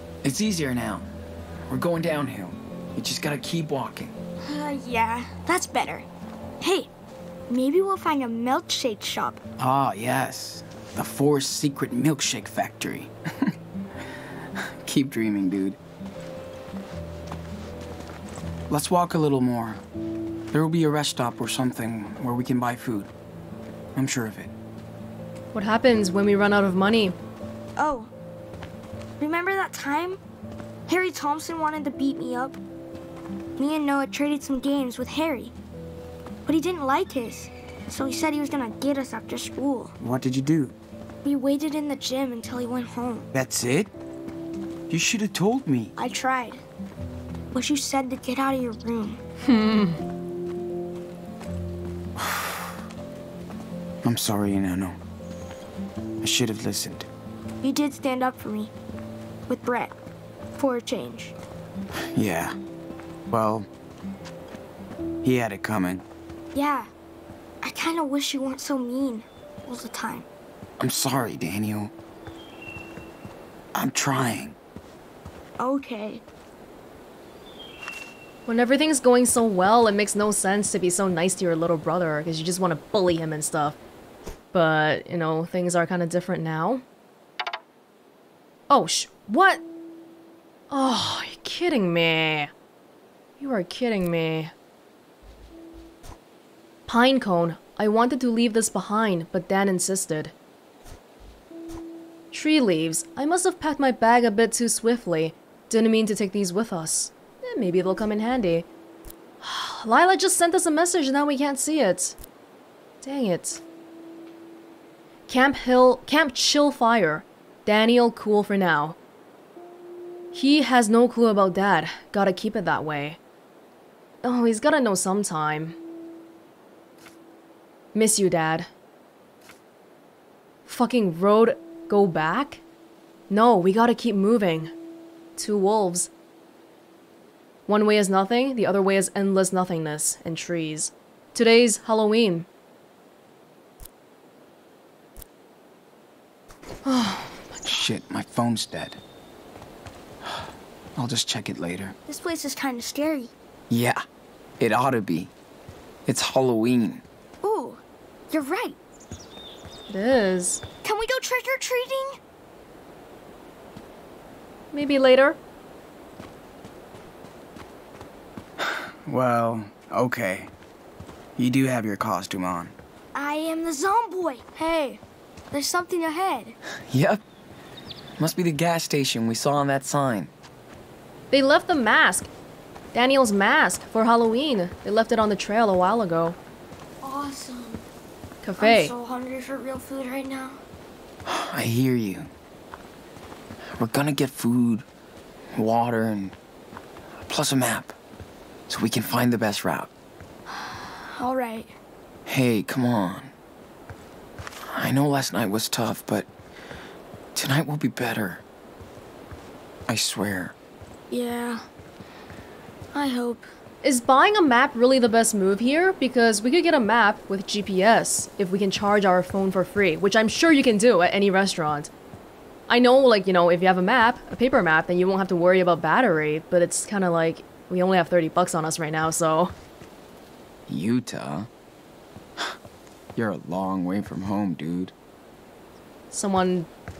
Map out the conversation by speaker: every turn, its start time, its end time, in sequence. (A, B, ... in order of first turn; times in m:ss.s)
0:00.2-0:01.1 A
0:01.7-0:04.1 A
0:04.4-0:06.1 B
0:06.6-0:06.9 B
0:07.5-0:09.4 B
0:09.6-0:13.5 A
0:14.6-0:15.8 A
0:18.7-0:19.8 A
0:20.5-0:23.1 A
0:24.0-0:24.5 A
0:25.5-0:27.2 C
0:27.8-0:28.1 B
0:29.2-0:30.2 B
0:30.9-0:32.6 B
0:33.6-0:35.5 B
0:36.4-0:39.9 B
0:40.0-0:40.8 A
0:41.2-0:43.3 B
0:43.3-0:43.9 A
0:44.9-0:45.9 A
0:46.0-0:46.6 B
0:47.5-0:49.2 B
0:49.4-0:50.0 C
0:52.2-0:52.8 A
0:54.0-0:55.0 A
0:56.2-0:57.1 A
0:57.6-0:58.7 B
0:59.5-1:00.0 B
1:00.6-1:01.4 B
1:02.0-1:02.6 A
1:03.3-1:03.7 A
1:05.2-1:06.0 A
1:06.5-1:06.9 B
1:07.6-1:10.3 B
1:10.8-1:11.9 A
1:13.7-1:14.6 A
1:15.6-1:16.2 B
1:18.5-1:23.8 C
1:24.5-1:26.8 C
1:28.7-1:29.6 C
1:30.7-1:32.5 C
1:33.4-1:34.5 C
1:36.9-1:40.3 C
1:42.3-1:48.7 C
1:49.4-1:52.2 C
1:53.0-1:53.6 C
1:55.3-1:59.0 C
2:00.3-2:03.2 C
2:04.2-2:05.8 C
2:07.9-2:08.7 C
2:10.7-2:12.6 C
2:13.3-2:14.7 C
2:15.4-2:16.1 C
2:17.7-2:22.5 C
2:26.8-2:27.8 C
2:27.7-2:29.0 A
2:30.2-2:32.0 A
2:32.1-2:33.3 B
2:33.7-2:34.0 A
2:34.6-2:35.3 A
2:36.1-2:37.0 A
2:37.4-2:38.8 B
2:39.9-2:40.6 C
2:40.8-2:42.2 B
2:44.7-2:45.4 C
2:48.6-2:50.5 A
2:51.4-2:52.7 A
2:53.2-2:55.0 B
2:55.5-2:56.6 B
2:56.9-2:57.2 A
2:58.2-3:00.3 A
3:01.3-3:02.3 C
3:02.9-3:06.4 C
3:07.0-3:07.8 B
3:08.4-3:08.9 C
3:08.6-3:10.6 B
3:11.3-3:12.3 A
3:13.8-3:14.9 A
3:15.5-3:16.4 A
3:17.2-3:18.0 A
3:18.7-3:19.9 A
3:20.5-3:21.8 B
3:22.3-3:23.3 A
3:24.7-3:26.3 A
3:27.4-3:28.4 A
3:29.9-3:30.6 A
3:31.1-3:31.6 B
3:32.9-3:33.5 B
3:33.8-3:41.9 C
3:42.7-3:49.5 C
3:50.7-3:51.5 A
3:53.2-3:54.9 A
3:56.1-3:56.7 C